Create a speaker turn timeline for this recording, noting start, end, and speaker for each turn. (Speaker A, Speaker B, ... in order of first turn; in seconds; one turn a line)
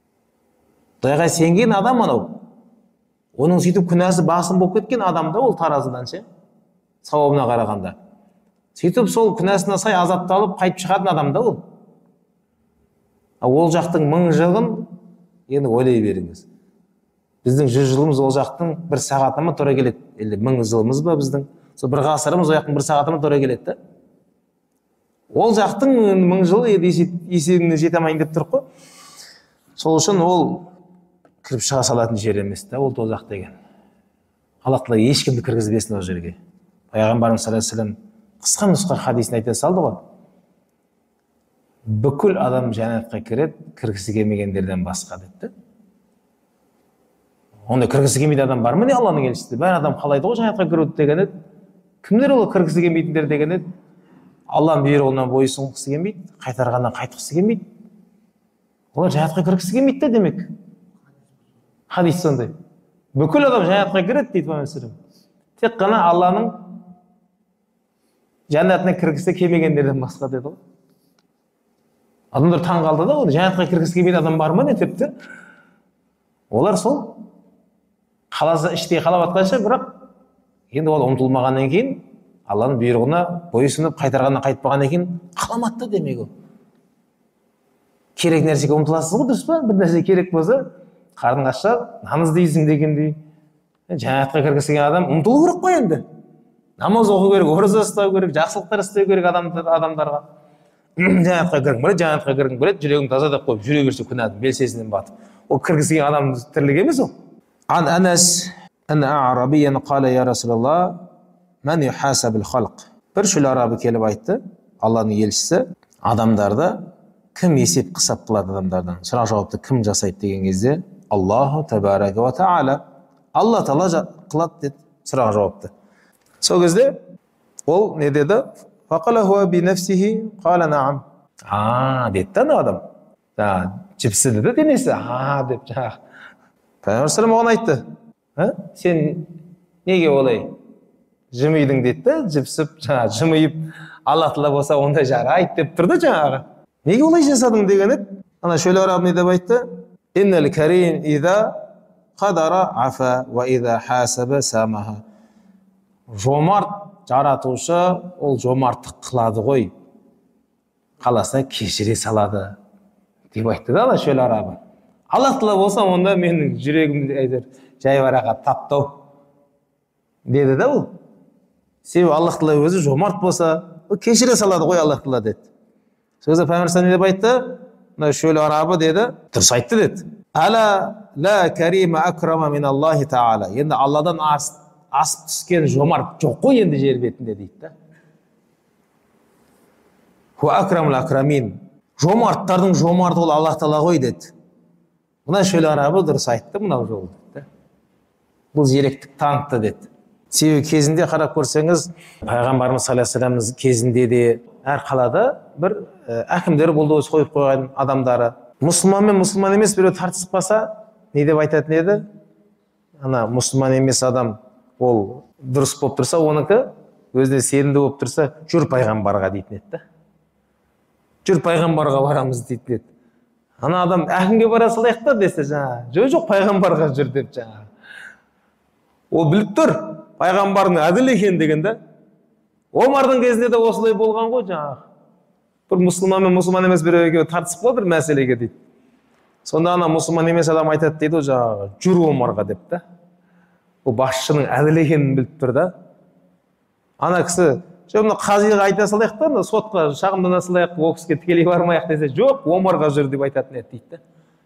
Speaker A: 1.0-2.4
Speaker A: 3.4-6.2
Speaker A: 7.0-7.9
Speaker A: 8.7-11.6
Speaker A: 13.4-14.9
Speaker A: 15.5-16.4
Speaker A: 17.4-23.8
Speaker A: 25.3-28.6
Speaker A: 29.8-30.7
Speaker A: 31.4-33.5
Speaker A: 34.6-36.4
Speaker A: 36.9-40.0
Speaker A: 41.9-45.5
Speaker A: 47.7-51.3
Speaker A: 52.0-53.6
Speaker A: 54.5-57.6
Speaker A: 58.9-60.5
Speaker A: 61.9-62.5
Speaker A: 63.1-64.9
Speaker A: 65.6-66.5
Speaker A: 68.5-70.6
Speaker A: 72.3-75.1
Speaker A: 76.5-77.2
Speaker A: 78.3-79.9
Speaker A: 80.7-86.3
Speaker A: 88.2-90.7
Speaker A: 91.2-93.2
Speaker A: 93.9-96.0
Speaker A: 96.8-100.2
Speaker A: 101.0-107.1
Speaker A: 107.7-111.0
Speaker A: 111.6-116.8
Speaker A: 117.3-122.8
Speaker A: 123.3-125.7
Speaker A: 126.4-127.0
Speaker A: 127.7-132.8
Speaker A: 133.4-136.0
Speaker A: 136.8-137.8
Speaker A: 138.4-139.3
Speaker A: 139.8-140.5
Speaker A: 141.3-149.6
Speaker A: 150.1-151.5
Speaker A: 152.2-155.0
Speaker A: 156.1-159.7
Speaker A: 161.0-162.5
Speaker A: 163.3-164.6
Speaker A: 165.1-168.9
Speaker A: 170.3-170.9
Speaker A: 171.8-175.4
Speaker A: 176.2-187.7
Speaker A: 190.4-194.3
Speaker A: 195.2-197.4
Speaker A: 198.5-212.0
Speaker A: 213.0-219.8
Speaker A: 221.2-222.8
Speaker A: 223.6-227.7
Speaker A: 229.1-231.8
Speaker A: 232.7-234.8
Speaker A: 235.7-238.5
Speaker A: 239.4-242.8
Speaker A: 243.8-245.7
Speaker A: 247.0-254.0